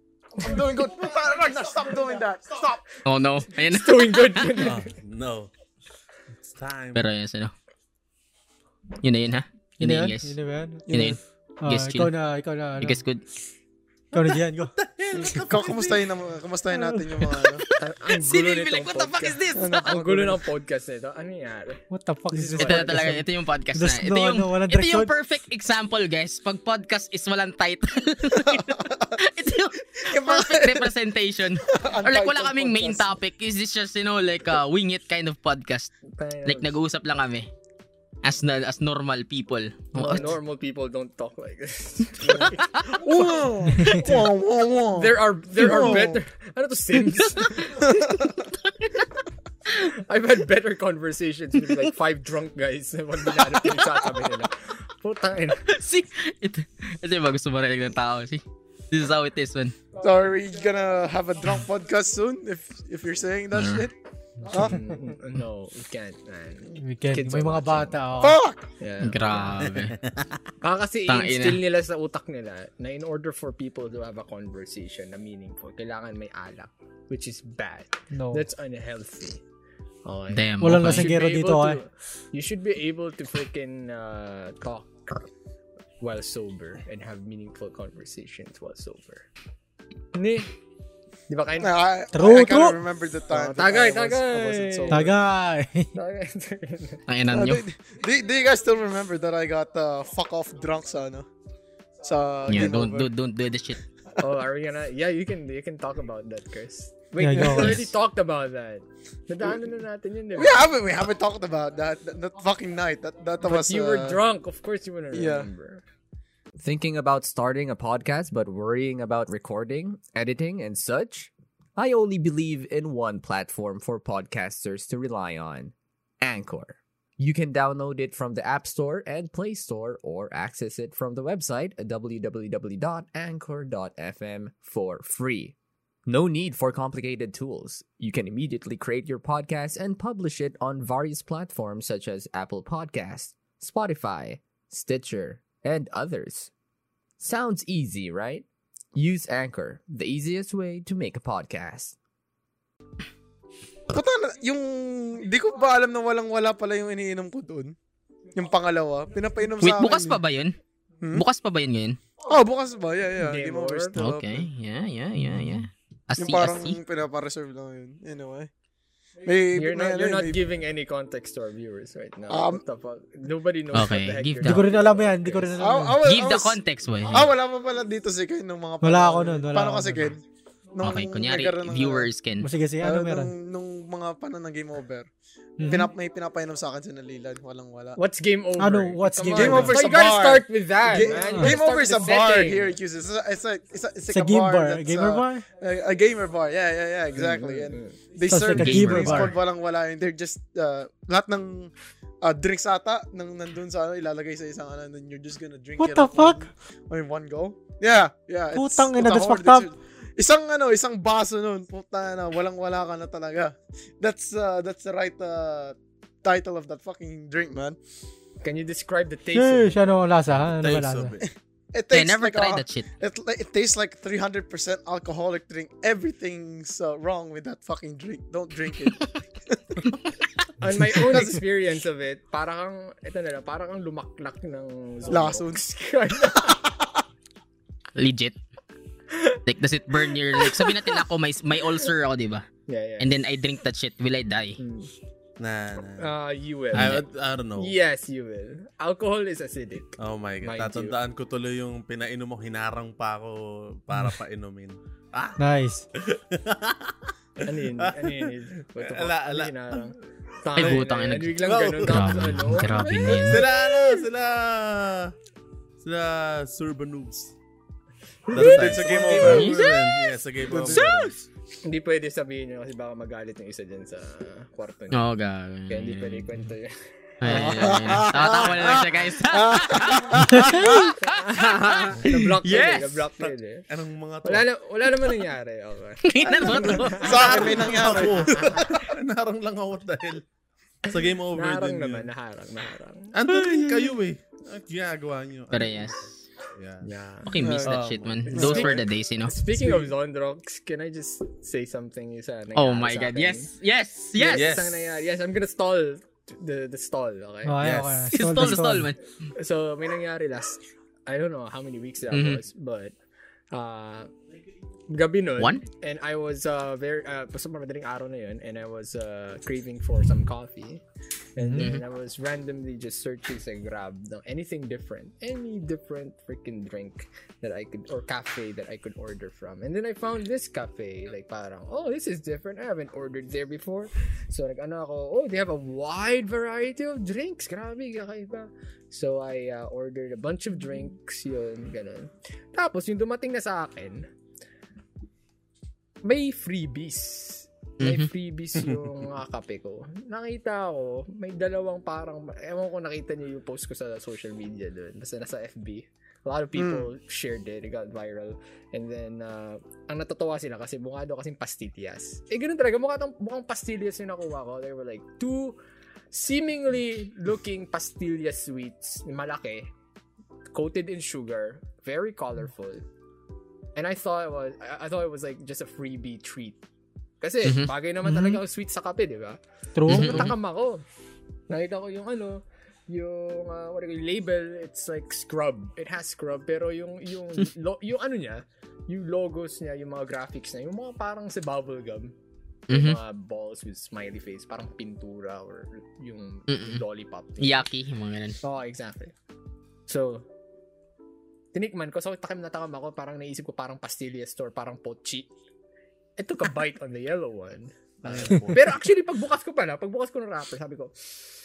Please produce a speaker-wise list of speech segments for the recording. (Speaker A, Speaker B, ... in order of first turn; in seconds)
Speaker A: 0.4-2.8, 10.9-11.2, 15.4-17.6, 19.6-20.4, 28.4-29.1, 30.0-30.9, 31.7-33.1, 42.2-46.2, 47.7-48.3, 60.0-63.9, 64.5-64.9, 68.2-68.6, 91.6-95.1, 97.3-101.3, 102.0-103.1, 107.4-107.8, 110.4-114.2, 115.1-115.5, 153.9-157.8, 158.3-160.2, 162.2-164.5, 166.2-168.5, 169.2-170.4, 172.3-172.6, 175.6-180.2, 180.8-182.1, 182.8-185.1, 185.7-188.0, 189.3-201.7, 202.2-217.8, 221.7-229.9, 231.0-231.4, 235.1-235.6, 236.4-236.7, 268.4-269.6, 270.5-270.9, 277.2-280.9, 287.1-288.6, 297.4-297.8, 298.3-298.8, 356.6-356.9
Speaker B: 3.0-4.7, 7.0-7.5, 9.0-10.3, 10.9-12.1, 12.8-13.2, 17.4-20.0, 22.6-37.5, 38.2-40.3, 55.7-59.8, 63.5-63.9, 69.0-70.0, 71.1-71.6, 80.3-81.1, 97.1-97.6, 102.5-103.8, 107.5-107.9, 159.6-160.6, 161.1-162.0, 164.0-166.8, 173.7-174.6, 176.0-177.3, 180.8-182.5, 198.5-199.3, 221.9-222.9, 238.0-238.4, 239.5-242.5, 243.0-244.6, 260.6-263.4, 269.1-270.1, 270.7-271.1, 274.9-276.3, 277.2-283.1, 286.1-287.2, 295.5-296.2, 297.3-299.4, 302.6-304.6, 308.1-309.0, 312.1-312.4, 315.4-315.6, 321.4-321.8, 347.8-348.1, 377.4-378.3, 379.9-380.4, 392.7-393.0, 396.5-396.8, 397.4-398.4
Speaker C: 3.6-4.9, 17.8-21.8, 36.1-36.7, 39.9-43.3, 45.0-47.9, 49.7-55.7, 64.5-68.0, 68.8-69.8, 70.6-79.4, 80.0-85.3, 86.0-89.3, 90.1-90.5, 91.3-91.8, 93.3-95.1, 95.9-97.0, 104.2-110.7, 113.4-115.8, 163.2-164.1, 169.5-175.8, 188.0-192.8, 197.2-198.0, 218.4-219.9, 230.6-236.6, 239.1-239.4, 239.9-240.9, 242.7-243.1, 244.6-244.9, 246.0-247.0, 247.6-251.0, 257.5-264.1, 268.3-269.5, 271.6-275.0, 275.7-277.8, 280.6-283.7, 284.2-288.6, 291.3-293.7, 296.8-297.6, 298.2-303.5, 304.2-307.7, 309.4-312.9, 313.5-314.1, 314.9-320.8, 321.4-344.1, 346.0-365.6, 366.1-369.7, 370.5-372.8, 373.8-376.6, 377.2-380.8, 381.5-392.1, 392.7-397.7, 398.4-399.1, 399.9-400.3, 401.5-405.3, 406.2-411.1
Speaker D: 4.6-5.5, 6.5-7.0, 14.1-16.1, 69.7-70.4, 220.3-221.2, 245.4-246.1, 246.7-247.7, 250.0-255.4, 256.0-259.9, 261.4-265.1, 265.8-267.3, 268.3-271.2, 283.7-284.4, 286.2-290.2, 290.9-292.1, 293.1-296.0, 296.6-296.9, 297.7-298.6, 304.3-304.8, 307.6-308.1, 348.6-348.9, 408.0-408.8
Speaker E: 9.8-10.9, 11.6-13.0, 14.1-15.3, 16.7-17.0, 21.9-25.1, 66.8-68.4, 78.1-78.5, 80.6-81.8, 92.1-92.8, 94.9-95.9, 107.2-107.8, 174.4-176.0, 178.8-180.2, 182.4-183.3, 185.6-185.9, 188.6-190.0, 194.1-195.4, 198.2-199.4, 205.8-206.5, 208.5-209.7, 219.3-221.2, 255.4-255.8, 280.3-280.7, 307.4-308.9, 379.8-380.3
Speaker F: 116.6-135.6, 136.1-146.5, 147.2-152.0